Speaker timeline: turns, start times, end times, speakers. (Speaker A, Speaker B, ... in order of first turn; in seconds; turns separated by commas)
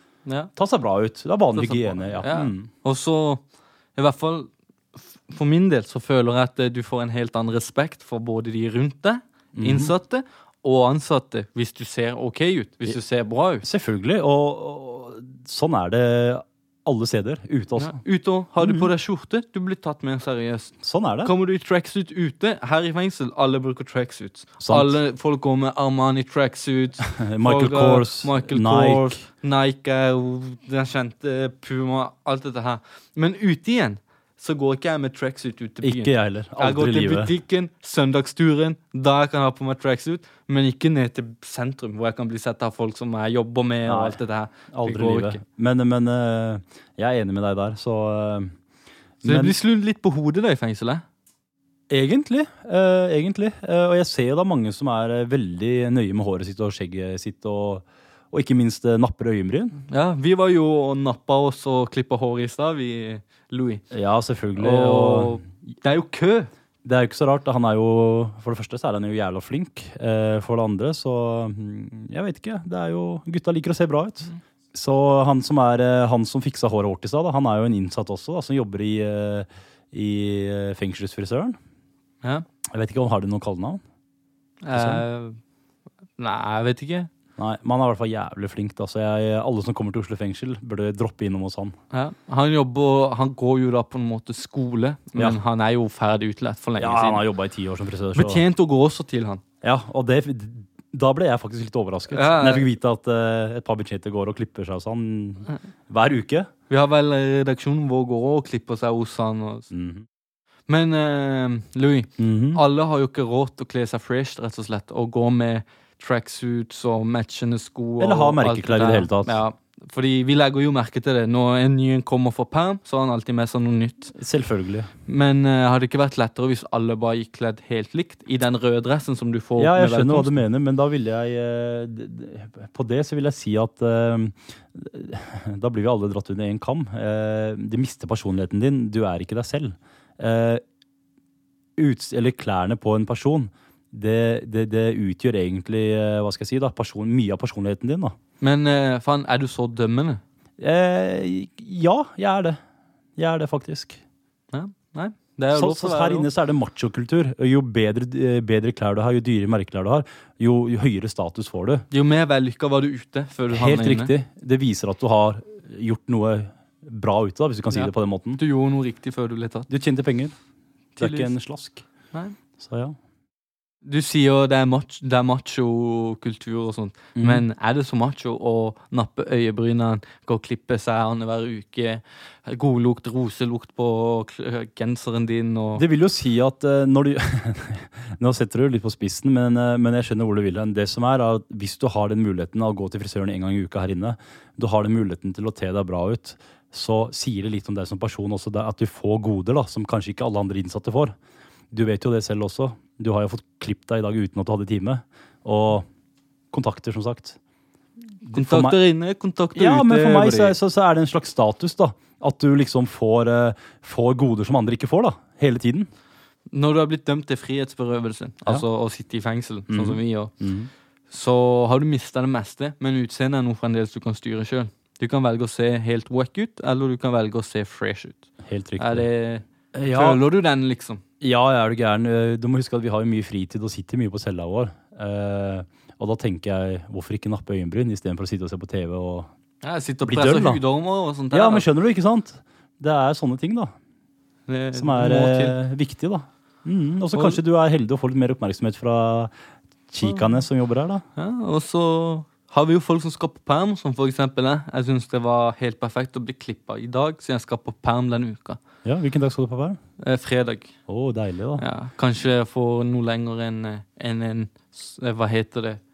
Speaker A: 0.2-0.5, Speaker B: 0.6-2.7, Speaker A: 1.6-13.6, Speaker B: 9.6-9.9, Speaker B: 13.6-18.0, Speaker A: 17.8-45.4, Speaker B: 18.6-18.9, Speaker B: 20.8-21.3, Speaker B: 24.6-25.0, Speaker B: 27.2-29.2, Speaker B: 35.8-37.3, Speaker B: 43.9-48.6, Speaker B: 49.2-49.5, Speaker A: 49.2-51.0, Speaker B: 51.9-59.8, Speaker A: 59.9-63.9, Speaker B: 63.9-65.4, Speaker A: 64.6-66.5, Speaker B: 66.8-81.6, Speaker B: 82.7-83.8, Speaker A: 84.6-85.4, Speaker B: 84.7-85.0, Speaker A: 86.2-87.1, Speaker B: 87.4-91.8, Speaker A: 91.9-97.2, Speaker B: 96.8-98.4, Speaker A: 98.2-99.4, Speaker B: 99.6-106.5, Speaker A: 102.1-102.7, Speaker A: 106.7-109.7, Speaker B: 109.7-110.0, Speaker A: 110.7-124.2, Speaker B: 112.2-112.6, Speaker B: 118.0-119.4, Speaker B: 124.2-124.9, Speaker A: 125.1-130.3, Speaker B: 129.6-140.6, Speaker B: 141.8-148.2, Speaker A: 148.4-150.2, Speaker B: 150.6-152.6, Speaker B: 153.2-154.0, Speaker A: 154.5-156.3, Speaker B: 155.5-161.9, Speaker A: 161.9-164.1, Speaker B: 163.5-168.4, Speaker A: 167.7-169.7, Speaker B: 169.7-170.4, Speaker B: 171.0-173.0, Speaker A: 171.0-171.3, Speaker A: 173.8-185.8, Speaker B: 177.2-177.4, Speaker B: 185.8-201.2, Speaker B: 201.7-205.9, Speaker B: 206.5-207.4, Speaker B: 208.2-208.8, Speaker A: 208.3-210.6, Speaker B: 209.6-215.9, Speaker A: 216.5-220.5, Speaker B: 219.7-220.7, Speaker A: 221.1-231.0, Speaker B: 228.4-229.3, Speaker B: 229.8-230.2, Speaker B: 231.2-239.3, Speaker A: 239.6-241.7, Speaker B: 240.1-243.7, Speaker A: 244.5-245.6, Speaker B: 244.7-249.4, Speaker A: 247.1-247.4, Speaker B: 249.9-251.0, Speaker A: 251.2-258.6, Speaker B: 258.8-259.8, Speaker A: 260.0-260.9, Speaker B: 260.9-261.6, Speaker A: 261.6-265.8